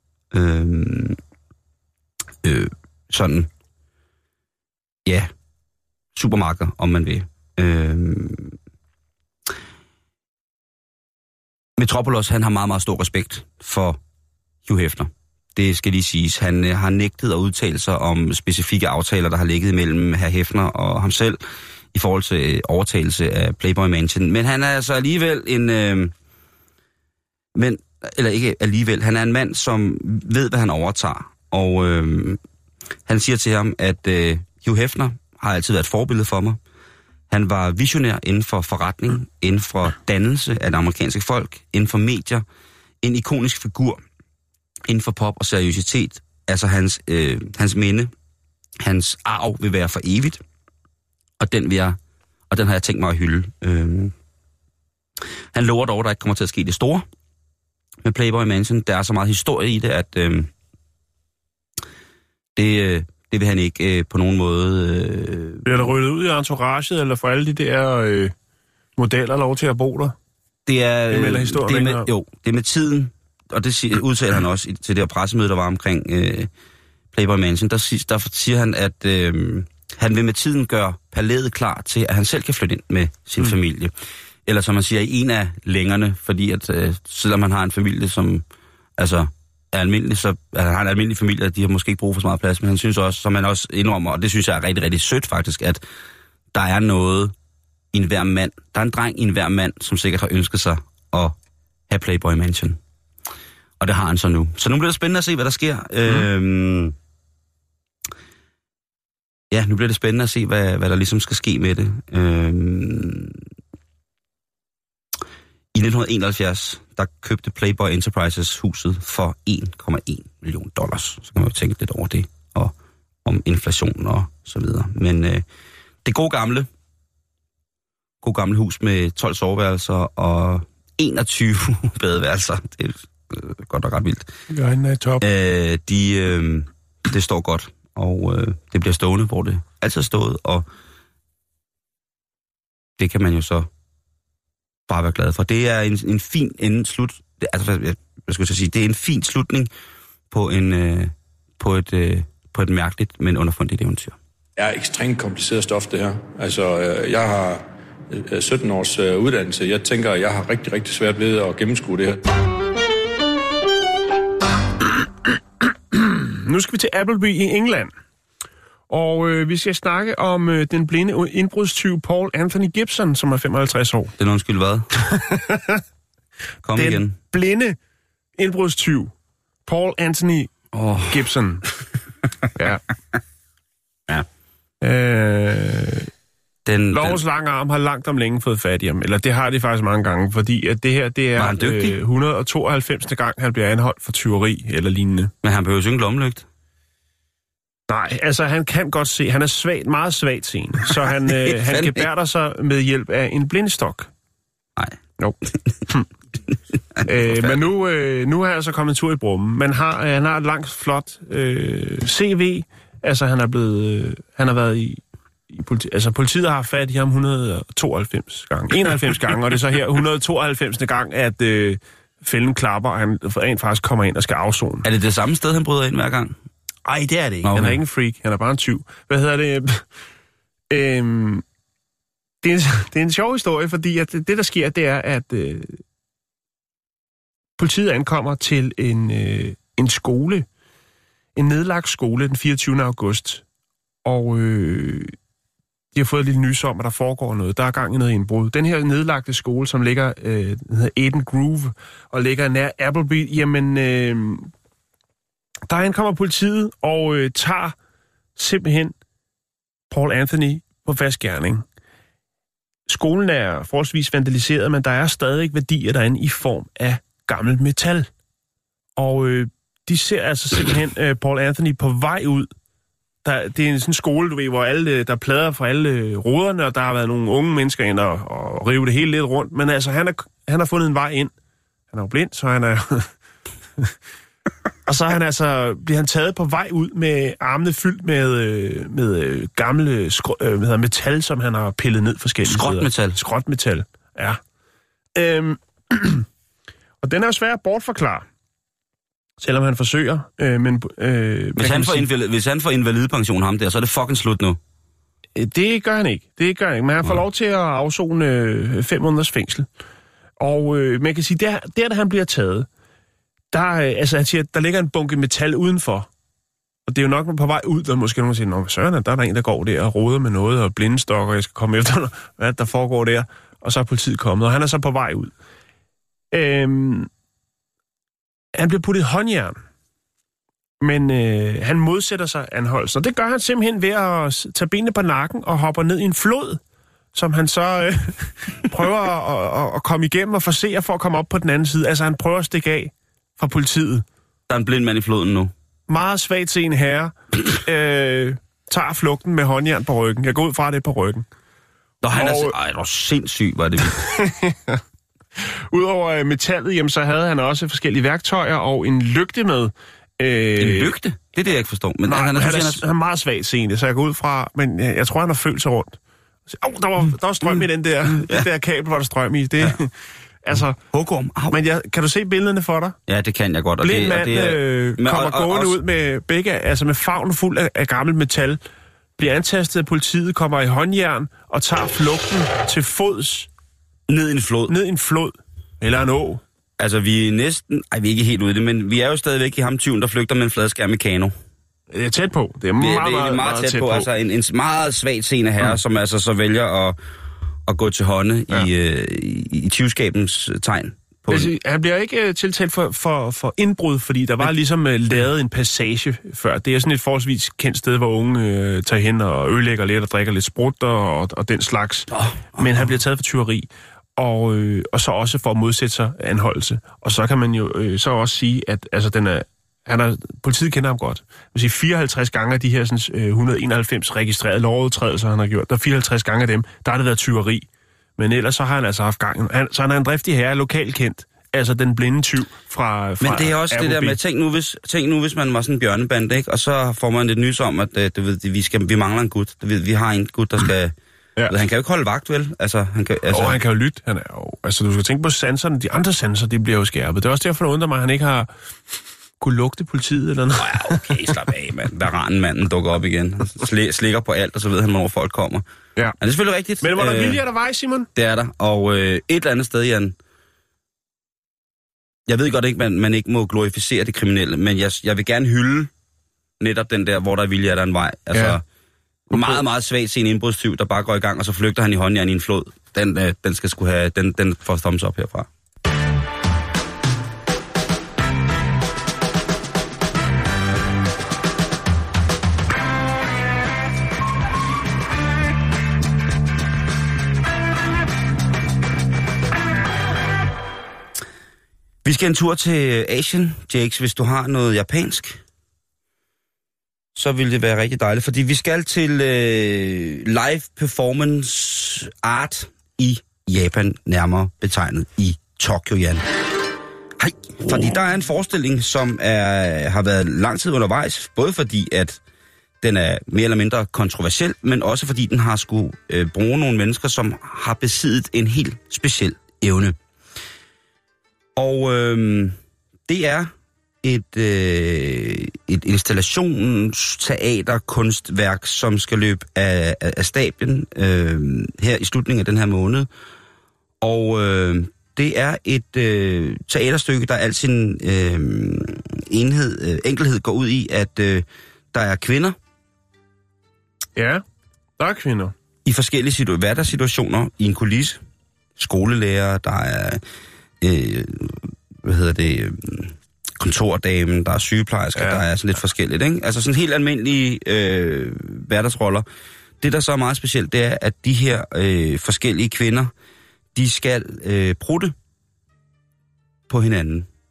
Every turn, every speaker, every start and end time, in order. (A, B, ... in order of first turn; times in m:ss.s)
0:00.3-0:01.2 A
0:02.4-0:03.5 A
0:06.2-0:08.6 A
0:11.8-0:14.0 A
0:14.6-0:21.4 A
0:21.9-0:26.1 A
0:27.6-0:32.4 A
0:33.1-0:36.6 A
0:37.3-0:42.4 A
0:43.0-0:44.0 A
0:44.9-0:48.1 A
0:48.8-0:50.4 A
0:51.4-0:52.0 A
0:52.5-0:54.1 A
0:55.5-0:57.1 A
0:58.0-1:00.5 A
1:02.6-1:05.9 A
1:05.6-1:08.3 B
1:09.0-1:10.2 B
1:10.7-1:16.5 A
1:11.1-1:12.1 B
1:17.1-1:23.9 A
1:24.5-1:28.4 A
1:29.0-1:35.8 A
1:36.5-1:37.3 A
1:37.9-1:41.4 A
1:41.9-1:42.8 A
1:43.8-1:47.0 A
1:49.5-1:53.4 A
1:55.7-2:02.7 A
2:03.2-2:05.4 A
2:06.0-2:06.7 A
2:08.2-2:14.3 A
2:14.5-2:15.2 B
2:15.2-2:20.7 A
2:23.0-2:23.7 A
2:24.9-2:29.7 A
2:30.3-2:34.2 A
2:34.6-2:42.3 C
2:45.9-2:47.9 B
2:48.9-2:54.1 B
2:54.2-2:54.9 A
2:55.1-2:55.8 B
2:56.6-2:57.2 A
2:56.8-2:57.8 B
2:58.4-2:59.1 B
2:59.7-3:00.5 B
3:00.7-3:01.3 A
3:01.1-3:01.7 B
3:02.6-3:02.8 B
3:04.8-3:06.1 B
3:06.6-3:07.2 A
3:06.9-3:15.3 B
3:11.4-3:12.0 A
3:15.4-3:16.5 A
3:17.9-3:24.1 B
3:21.5-3:22.1 A
3:27.0-3:44.9 B
3:44.8-3:46.4 A
3:46.8-3:49.8 B
3:47.4-3:47.8 A
3:50.7-3:51.4 B
3:52.4-3:55.8 B
3:57.6-4:00.5 B
4:01.4-4:03.4 B
4:04.0-4:05.1 B
4:05.9-4:14.5 B
4:15.7-4:17.8 B
4:18.4-4:18.9 B
4:19.9-4:21.6 B
4:22.9-4:28.1 B
4:29.0-4:32.5 B
4:33.2-4:41.3 B
4:41.9-4:43.1 B
4:44.9-4:54.4 B
4:52.4-4:53.2 A
4:55.2-4:56.3 B
4:57.0-4:58.2 B
4:59.4-5:02.1 B
5:01.6-5:04.6 A
5:05.4-5:09.7 B
5:10.4-5:12.7 B
5:13.5-5:16.1 B
5:16.9-5:25.3 B
5:26.3-5:27.1 B
5:28.6-5:29.6 B
5:30.8-5:36.6 B
5:37.1-5:44.0 B
5:44.5-5:45.5 A
5:45.9-5:51.2 B
5:52.0-5:54.1 A
5:52.1-5:52.6 B
5:53.8-5:54.8 B
5:55.4-6:00.9 B
6:00.6-6:02.8 A
6:02.1-6:06.0 B
6:06.5-6:09.9 B
6:08.1-6:08.5 A
6:10.4-6:10.8 B
6:10.8-6:11.6 A
6:11.5-6:13.0 B
6:13.1-6:15.8 A
6:13.8-6:18.6 B
6:19.2-6:23.5 B
6:24.1-6:24.8 A
6:24.7-6:26.4 B
6:26.8-6:31.3 A
6:31.9-6:34.1 B
6:32.8-6:37.0 A
6:37.7-6:41.5 A
6:41.3-7:07.7 B
6:52.1-6:52.6 A
7:08.2-7:14.2 B
7:13.2-7:21.0 A
7:21.5-7:23.6 A
7:23.3-7:28.5 B
7:29.4-7:31.3 B
7:30.6-7:35.6 A
7:36.2-7:37.4 A
7:36.8-7:38.1 B
7:38.2-7:40.2 A
7:42.3-7:45.9 A
7:46.6-7:48.6 A
7:48.3-7:48.6 B
7:49.3-7:55.5 A
7:49.3-7:49.6 B
8:12.0-8:15.4 A
8:17.2-8:26.2 A
8:27.2-8:32.2 A
8:32.8-8:40.0 A
8:41.6-8:43.5 A
8:44.0-8:53.1 A
8:54.0-9:02.6 A
9:04.2-9:04.4 B
9:05.0-9:05.5 B
9:05.8-9:08.2 A
9:08.8-9:10.2 A
9:10.8-9:19.3 A
9:15.2-9:15.4 B
9:19.8-9:23.1 A
9:23.8-9:25.2 A
9:26.7-9:27.3 A